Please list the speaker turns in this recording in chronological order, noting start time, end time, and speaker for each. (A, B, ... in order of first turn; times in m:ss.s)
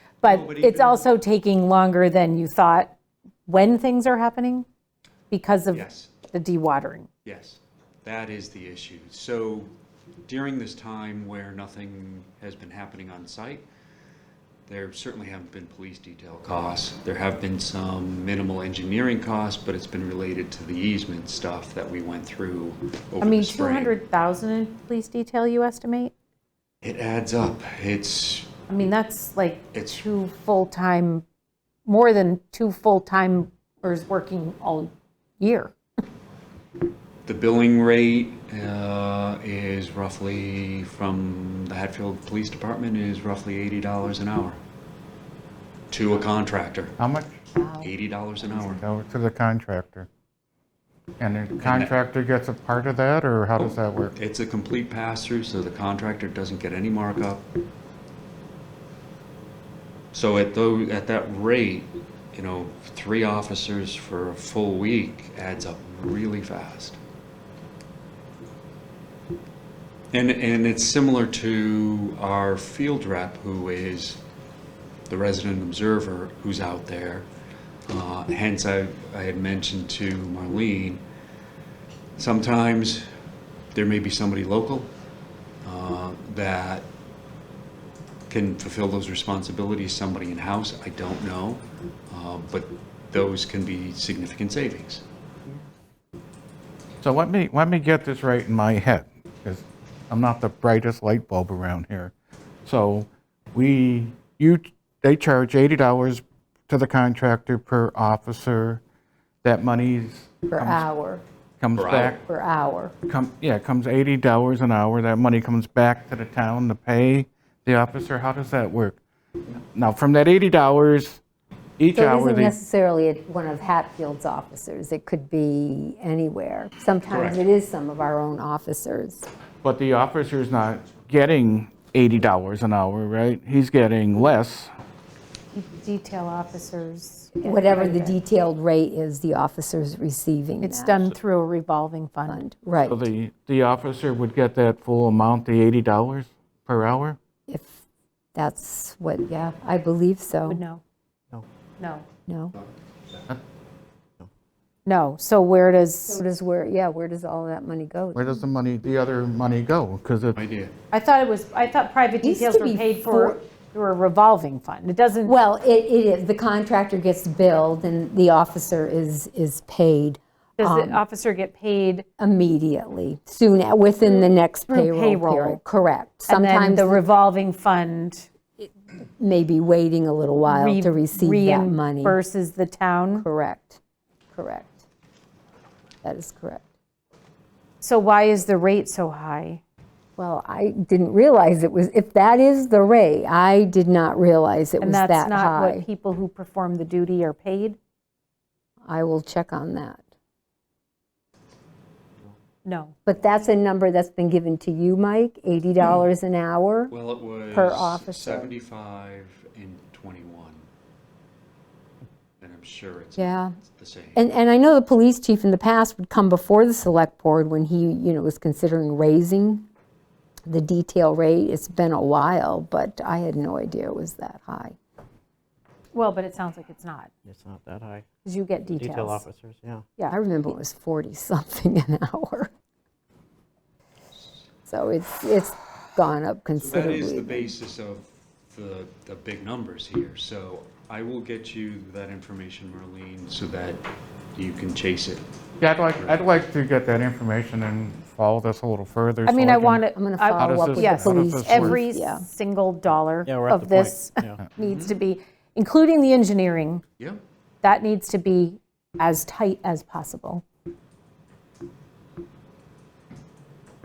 0:00.2-0:02.9 A
0:00.2-0:01.1 B
0:03.4-0:04.6 A
0:05.3-0:07.1 A
0:05.7-0:06.1 B
0:07.2-0:09.7 B
0:10.2-0:13.6 B
0:14.7-0:24.0 B
0:23.2-0:26.1 A
0:26.8-0:28.6 B
0:28.7-0:31.2 A
0:29.7-0:30.1 B
0:31.8-0:35.7 A
0:37.2-0:44.6 B
0:45.9-0:47.0 B
0:47.0-0:47.3 C
0:47.5-0:47.9 D
0:47.8-0:48.8 B
0:48.5-0:48.8 D
0:48.7-0:50.1 C
0:51.2-0:54.1 C
0:51.6-0:51.9 B
0:53.6-0:57.4 B
1:00.1-1:07.0 B
1:10.1-1:14.2 B
1:15.1-1:17.3 B
1:17.9-1:21.0 B
1:22.2-1:23.1 B
1:23.7-1:24.9 B
1:25.6-1:26.9 B
1:28.3-1:35.0 B
1:37.0-1:42.1 C
1:42.6-1:48.8 C
1:49.4-1:50.8 C
1:50.5-1:51.2 D
1:51.6-1:52.2 C
1:51.7-1:52.2 B
1:52.2-1:52.9 D
1:53.1-2:01.2 C
2:01.8-2:02.6 C
2:01.9-2:09.3 D
2:07.1-2:07.4 B
2:09.6-2:14.7 C
2:15.5-2:18.2 A
2:17.4-2:21.0 D
2:20.6-2:22.4 A
2:22.3-2:23.1 D
2:22.8-2:27.2 C
2:27.5-2:27.8 D
2:28.3-2:30.6 D
2:30.5-2:30.8 A
2:31.8-2:32.0 A
2:32.3-2:32.5 D
2:34.8-2:36.2 A
2:36.1-2:38.4 D
2:38.1-2:40.4 C
2:40.3-2:40.7 B
2:40.9-2:45.4 A
2:42.2-2:43.4 D
2:45.2-2:51.0 D
2:50.6-2:52.0 A
2:52.2-2:57.0 D
2:54.0-2:55.6 A
2:56.3-2:58.3 A
2:58.6-3:02.2 D
3:00.4-3:03.2 A
3:03.2-3:03.8 D
3:04.3-3:04.8 D
3:06.0-3:06.6 D
3:07.8-3:09.6 A
3:10.2-3:15.8 D
3:14.8-3:17.8 A
3:18.8-3:20.0 D
3:22.6-3:22.9 A
3:23.0-3:26.9 D
3:26.9-3:30.6 B
3:27.5-3:28.5 D
3:32.4-3:34.3 B
3:33.2-3:33.5 D
3:34.1-3:39.7 D
3:40.5-3:44.8 D
3:45.9-3:47.1 A
3:47.2-3:48.0 E
3:48.2-3:49.2 A
3:48.7-3:49.8 E
3:50.1-3:52.5 D
3:54.7-3:57.5 D
3:56.6-4:03.8 B
4:04.3-4:05.2 B
4:05.6-4:09.8 C
4:05.9-4:06.2 B
4:09.2-4:16.8 A
4:09.9-4:12.3 D
4:10.4-4:11.8 C
4:13.2-4:14.4 E
4:14.6-4:15.0 B
4:17.6-4:20.4 A